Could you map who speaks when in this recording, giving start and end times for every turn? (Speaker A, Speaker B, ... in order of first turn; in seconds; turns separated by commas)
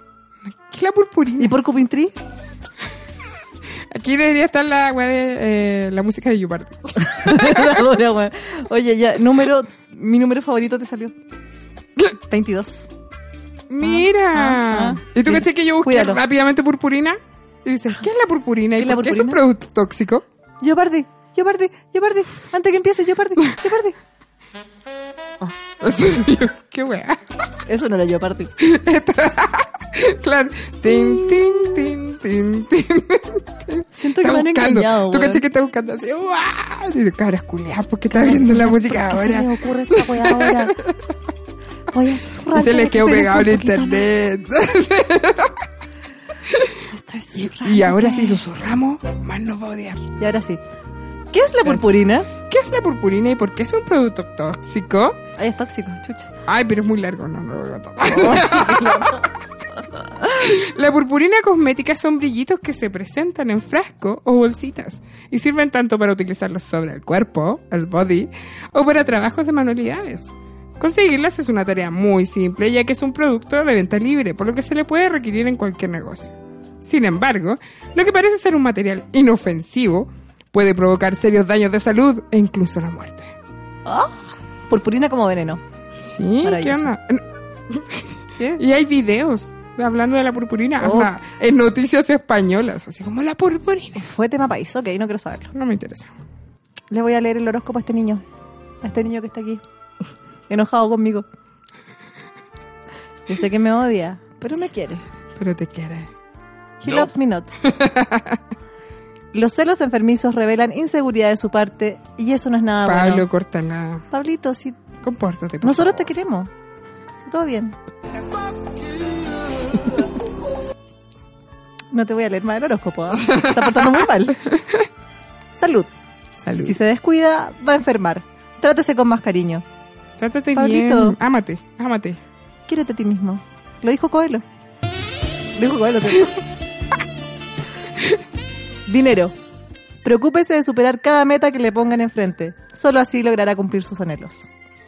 Speaker A: 0.5-1.6, Speaker B: 1.4-2.1, Speaker A: 3.9-7.8, Speaker B: 7.0-11.1, Speaker B: 12.3-12.9, Speaker A: 13.7-20.2, Speaker B: 13.8-16.2, Speaker B: 18.8-19.4, Speaker B: 20.6-24.0, Speaker A: 25.4-27.3, Speaker B: 27.7-28.5, Speaker A: 28.6-41.0, Speaker B: 30.9-31.7, Speaker B: 34.0-35.4, Speaker B: 38.1-40.8, Speaker B: 41.9-44.1, Speaker A: 42.5-45.6, Speaker B: 46.9-48.4, Speaker A: 47.4-50.1, Speaker B: 50.2-50.6, Speaker B: 51.3-52.3, Speaker A: 51.6-55.2, Speaker B: 55.4-56.3, Speaker A: 56.5-59.3, Speaker B: 58.0-59.3, Speaker A: 60.2-83.3, Speaker B: 83.9-84.2, Speaker B: 84.7-85.6, Speaker A: 86.0-88.1, Speaker B: 86.4-86.9, Speaker A: 88.6-94.1, Speaker B: 90.8-91.1, Speaker B: 94.0-95.5, Speaker A: 95.5-96.1, Speaker B: 96.9-98.2, Speaker B: 98.8-99.6, Speaker B: 100.5-101.3, Speaker B: 103.3-105.0, Speaker A: 105.4-106.1, Speaker B: 106.8-107.5, Speaker A: 107.6-108.4, Speaker B: 109.3-113.3, Speaker A: 112.8-114.1, Speaker B: 114.1-114.8, Speaker A: 115.0-116.0, Speaker B: 115.6-116.5, Speaker B: 117.3-117.8, Speaker B: 121.9-124.4, Speaker A: 123.3-123.8, Speaker A: 124.5-124.8, Speaker B: 125.5-125.9, Speaker A: 126.4-126.8, Speaker B: 126.5-129.6, Speaker A: 130.2-132.2, Speaker B: 130.6-131.2, Speaker B: 132.7-134.4, Speaker B: 135.6-136.4, Speaker B: 138.9-139.3, Speaker B: 140.0-144.5